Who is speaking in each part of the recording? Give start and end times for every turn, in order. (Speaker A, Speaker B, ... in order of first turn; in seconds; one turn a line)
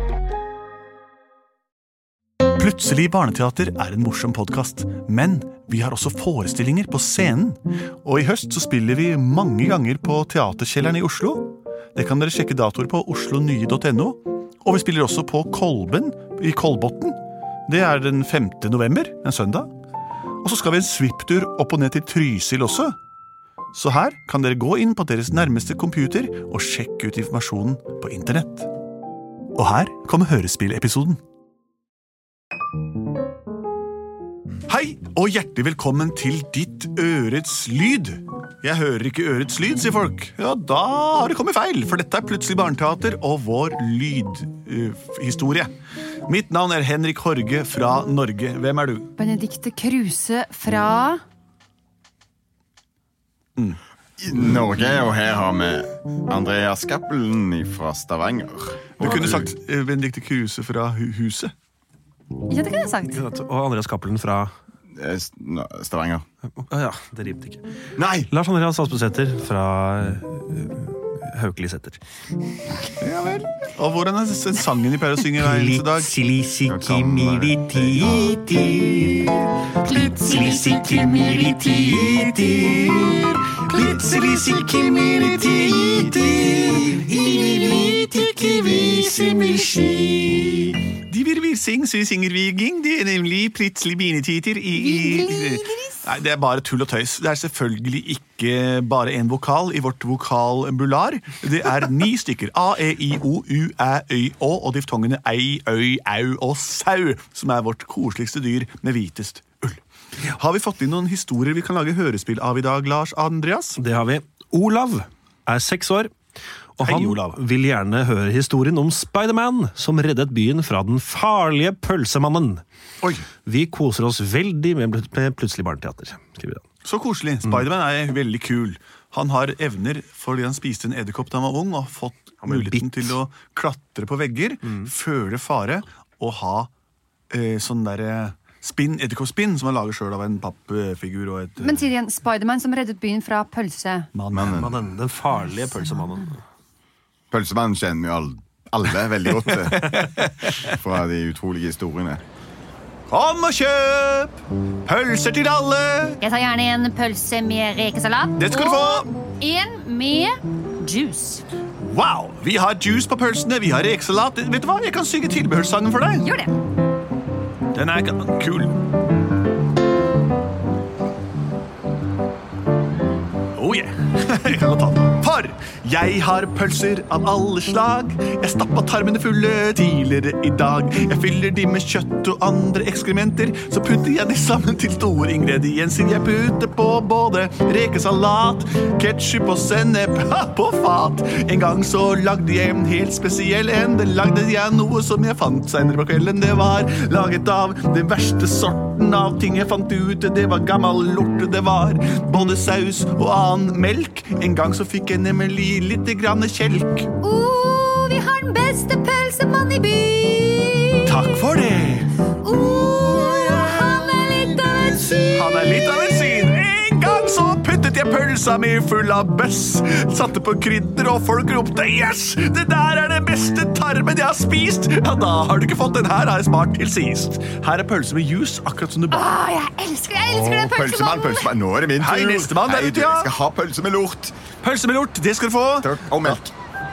Speaker A: 2.6-19.7
Speaker A: 20.4-23.0
Speaker A: 23.7-28.7
Speaker A: 29.5-31.2
Speaker A: 34.7-45.7
Speaker A: 46.3-49.1
Speaker B: 49.2-51.2
Speaker C: 54.2-59.5
Speaker A: 59.0-61.5
Speaker B: 62.5-63.2
Speaker D: 63.1-64.5
Speaker C: 65.0-66.2
Speaker D: 66.6-67.6
Speaker C: 68.0-68.3
Speaker D: 68.3-72.0
Speaker A: 73.0-76.2
Speaker D: 75.4-84.6
Speaker C: 76.7-78.4
Speaker B: 79.9-81.4
Speaker A: 83.0-89.6
Speaker D: 85.2-89.8
Speaker B: 87.4-88.0
Speaker B: 88.8-90.3
Speaker A: 91.0-113.8
Speaker B: 94.9-96.0
Speaker D: 113.8-116.1
Speaker D: 116.8-122.6
Speaker A: 116.8-117.4
Speaker A: 123.0-123.3
Speaker D: 123.5-126.6
Speaker A: 126.8-136.7
Speaker D: 132.4-133.2
Speaker A: 137.3-141.9
Speaker B: 141.6-144.1
Speaker A: 144.1-144.9
Speaker C: 144.3-144.8
Speaker D: 144.5-146.4
Speaker C: 147.3-149.8
Speaker A: 149.3-150.7
Speaker C: 150.7-152.2
Speaker A: 153.1-156.2
Speaker B: 156.2-161.4
Speaker A: 158.4-159.1
Speaker A: 161.8-166.3
Speaker B: 166.2-166.6
Speaker A: 167.7-168.8
Speaker A: 173.6-207.1
Speaker B: 207.2-211.3
Speaker A: 211.1-212.1
Speaker B: 212.4-216.3
Speaker A: 215.3-229.3
Speaker B: 229.1-231.5
Speaker C: 230.2-234.4
Speaker A: 232.0-233.3
Speaker A: 234.6-236.4
Speaker C: 235.8-236.5